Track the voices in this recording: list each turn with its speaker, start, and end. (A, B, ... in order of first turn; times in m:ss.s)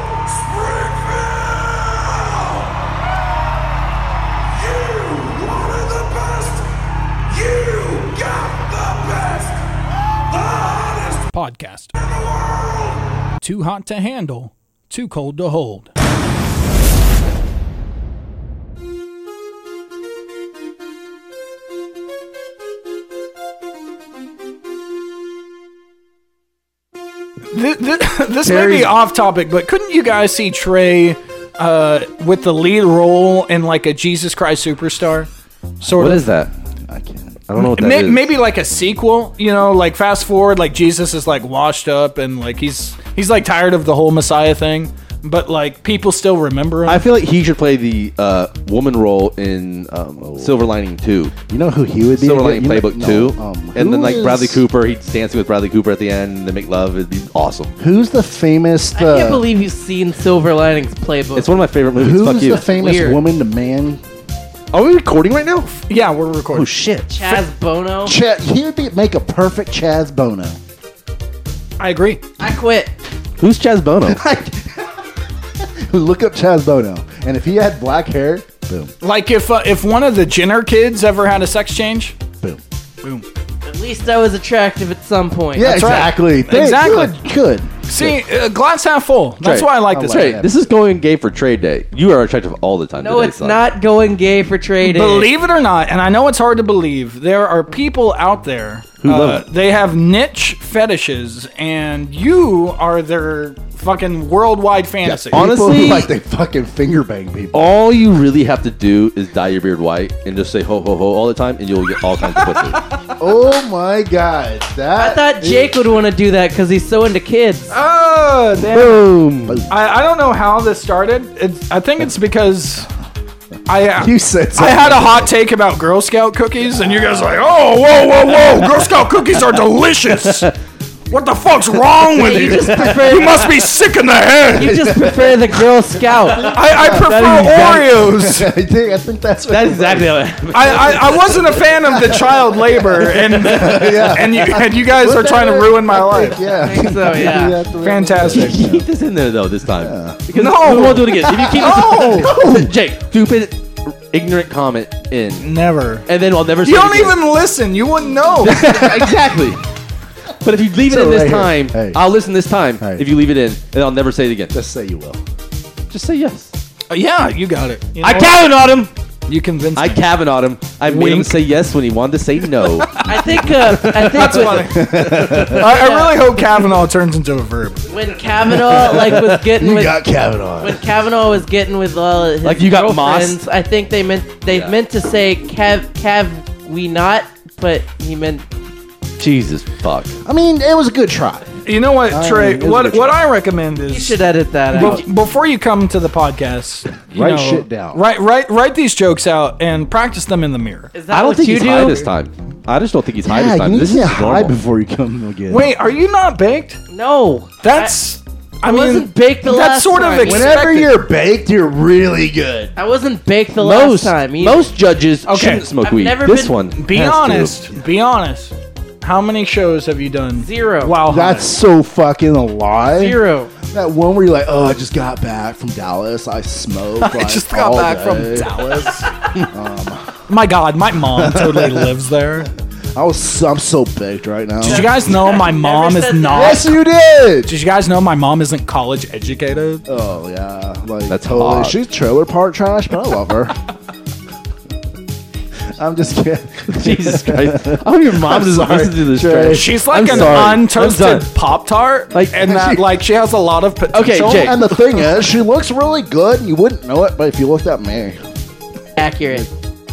0:00.1-0:01.2 A
0:11.0-0:11.9 A
0:13.4-0:15.9 A
0:27.5-0:35.3 A
0:28.4-0:28.9 B
0:35.8-0:36.2 A
0:35.9-0:36.5 C
0:36.9-0:37.4 B
0:37.5-0:38.2 C
0:37.6-0:47.0 A
0:46.8-0:51.3 C
0:50.2-0:50.6 B
0:51.5-0:54.6 B
0:52.2-0:57.7 C
0:57.8-0:59.4 B
0:59.0-1:01.6 D
1:01.3-1:02.7 C
1:01.9-1:04.0 B
1:02.6-1:03.2 D
1:04.7-1:05.7 B
1:05.9-1:06.7 A
1:06.5-1:07.3 B
1:07.1-1:08.2 D
1:08.0-1:10.6 B
1:11.8-1:12.2 A
1:12.4-1:12.9 D
1:13.4-1:14.2 C
1:14.0-1:14.9 B
1:15.6-1:18.9 B
1:19.0-1:22.2 A
1:23.6-1:26.0 D
1:25.6-1:28.0 B
1:25.6-1:27.3 A
1:27.8-1:30.4 A
1:29.4-1:33.6 C
1:29.9-1:30.6 B
1:33.0-1:35.3 D
1:34.8-1:45.5 A
1:39.0-1:39.4 C
1:45.0-1:47.6 B
1:45.3-1:46.1 C
1:47.5-1:52.8 C
1:53.2-1:55.7 B
1:55.0-1:57.7 D
1:57.7-1:59.1 A
1:58.6-1:59.6 C
1:59.5-1:59.7 B
1:59.7-2:02.9 A
2:03.7-2:10.5 A
2:04.0-2:05.3 B
2:11.1-2:14.7 A
2:12.1-2:13.5 D
2:14.5-2:15.5 B
2:14.6-2:16.5 D
2:16.1-2:20.2 B
2:16.4-2:18.5 A
2:16.9-2:18.0 C
2:19.5-2:21.6 C
2:20.5-2:26.4 A
2:21.8-2:22.3 B
2:22.9-2:28.9 B
2:23.4-2:23.8 C
2:26.6-2:27.6 D
2:27.8-2:28.5 A
2:28.3-2:35.5 C
2:29.8-2:30.2 B
2:30.3-2:32.7 A
2:31.3-2:32.2 B
2:35.4-2:36.0 A
2:36.1-2:37.3 C
2:36.6-2:39.0 A
2:38.4-2:39.6 C
2:40.4-2:44.5 C
2:40.8-2:42.0 B
2:42.8-2:43.1 B
2:44.5-2:45.2 B
2:45.9-2:46.5 C
2:46.9-2:48.4 A
2:48.0-2:48.9 C
2:49.3-2:50.0 A
2:49.7-2:53.0 C
2:50.8-2:51.4 A
2:53.0-2:54.7 D
2:53.7-2:55.5 C
2:54.0-2:57.8 A
2:54.6-2:55.7 B
2:55.5-2:56.4 D
2:57.9-3:00.0 D
2:58.7-3:00.8 B
3:00.6-3:08.4 D
3:02.4-3:03.4 C
3:04.5-3:04.8 C
3:09.2-3:10.1 C
3:10.2-3:11.5 B
3:11.6-3:14.2 A
3:12.1-3:13.2 B
3:13.9-3:15.0 D
3:14.7-3:20.9 A
3:14.7-3:15.0 C
3:17.1-3:18.0 B
3:20.9-3:22.1 D
3:21.1-3:24.6 C
3:23.2-3:25.7 B
3:25.5-3:26.8 A
3:26.9-3:28.0 D
3:27.6-3:31.0 A
3:28.6-3:30.6 D
3:30.2-3:32.7 B
3:32.8-3:34.7 D
3:33.6-3:37.7 C
3:35.2-3:35.7 A
3:35.8-3:36.6 D
3:36.7-3:41.5 A
3:40.4-3:41.0 D
3:41.1-3:43.2 B
3:42.9-3:43.5 D
3:43.7-3:50.2 B
3:47.0-3:49.1 A
3:50.3-3:52.5 A
3:51.2-3:51.9 B
3:52.9-3:55.0 B
3:54.6-3:56.7 A
3:54.7-3:56.6 D
3:56.3-3:57.5 B
3:57.5-3:59.8 A
3:59.9-4:03.5 B
4:01.1-4:01.8 C
4:05.8-4:10.5 B
4:06.7-4:11.3 C
4:09.5-4:14.5 A
4:12.1-4:12.6 C
4:12.4-4:12.8 B
4:13.9-4:14.7 C
4:14.3-4:18.2 B
4:19.0-4:19.5 D